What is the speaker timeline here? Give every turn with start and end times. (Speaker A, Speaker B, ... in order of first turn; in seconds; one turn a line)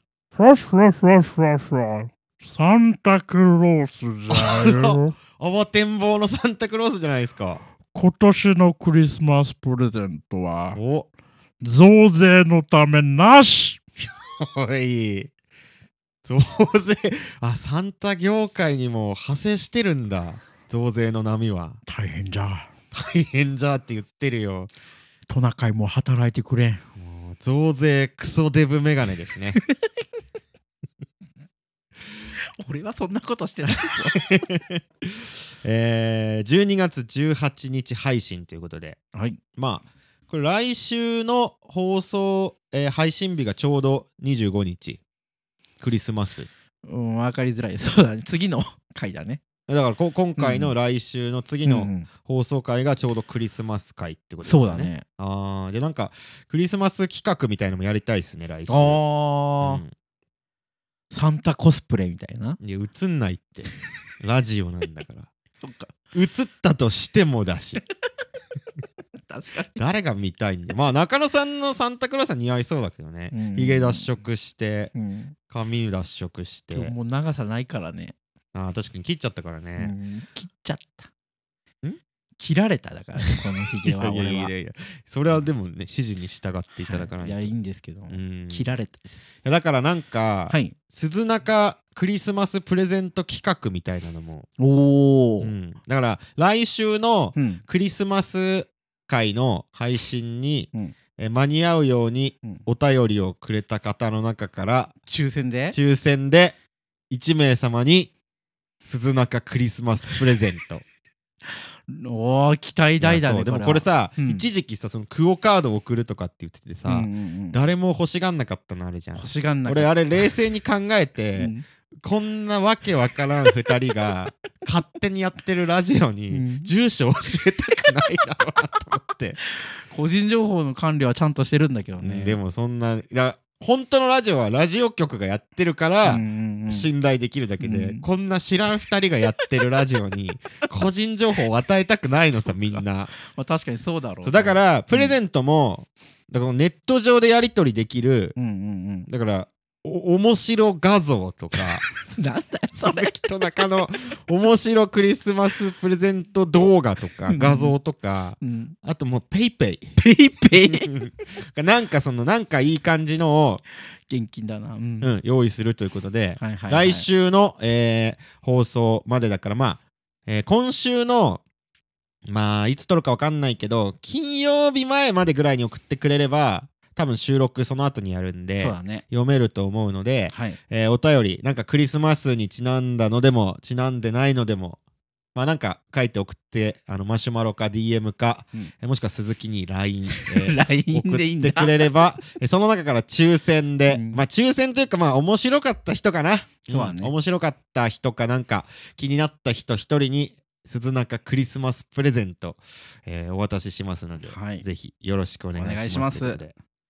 Speaker A: 0.3-5.1
Speaker B: 4.3-7.6
Speaker A: 7.9-10.8
Speaker B: 10.7-11.1
Speaker A: 11.6-13.8
Speaker B: 14.4-15.3
Speaker B: 16.3-21.8
Speaker C: 21.9-22.7
Speaker B: 22.9-24.7
Speaker C: 25.3-26.8
Speaker B: 27.0-29.6
Speaker C: 29.7-30.0
Speaker C: 32.6-34.4
Speaker B: 33.7-35.1
Speaker B: 35.6-39.0
Speaker C: 39.1-39.4
Speaker B: 39.5-45.0
Speaker B: 45.8-46.5
Speaker C: 46.8-49.4
Speaker B: 49.7-59.0
Speaker C: 50.4-50.7
Speaker C: 51.6-52.1
Speaker C: 54.4-55.0
Speaker C: 58.7-59.8
Speaker B: 59.6-59.9
Speaker C: 61.1-62.6
Speaker B: 62.6-65.3
Speaker C: 65.6-65.9
Speaker B: 66.1-67.8
Speaker C: 69.2-69.8
Speaker B: 69.8-74.9
Speaker C: 73.3-74.1
Speaker C: 74.9-75.3
Speaker B: 75.5-76.9
Speaker C: 76.7-78.2
Speaker B: 78.5-79.9
Speaker C: 79.8-81.1
Speaker C: 82.4-84.5
Speaker B: 83.2-87.5
Speaker C: 86.8-89.0
Speaker B: 88.1-88.7
Speaker B: 89.4-94.5
Speaker C: 90.5-90.7
Speaker C: 94.6-95.5
Speaker B: 95.4-104.9
Speaker C: 97.3-97.6
Speaker C: 105.1-105.8
Speaker B: 105.7-106.5
Speaker B: 107.1-108.1
Speaker B: 108.8-110.8
Speaker C: 111.5-114.4
Speaker B: 113.0-129.4
Speaker C: 116.9-117.6
Speaker C: 119.2-120.0
Speaker C: 121.3-121.6
Speaker C: 126.3-126.7
Speaker C: 129.6-132.4
Speaker B: 132.0-143.1
Speaker C: 136.0-136.9
Speaker C: 137.6-138.0
Speaker C: 142.4-145.1
Speaker B: 144.2-148.3
Speaker C: 148.3-149.1
Speaker B: 149.1-151.9
Speaker C: 151.6-153.2
Speaker B: 152.8-160.0
Speaker C: 157.3-157.7
Speaker C: 158.4-158.8
Speaker C: 160.0-160.9
Speaker B: 160.7-163.6
Speaker C: 164.1-165.1
Speaker B: 165.0-171.4
Speaker C: 166.4-167.1
Speaker B: 172.2-184.8
Speaker C: 178.6-179.0
Speaker C: 180.3-180.6
Speaker B: 185.3-206.5
Speaker C: 190.1-191.9
Speaker C: 193.9-194.2
Speaker C: 196.7-197.1
Speaker C: 204.2-204.6
Speaker C: 205.5-206.4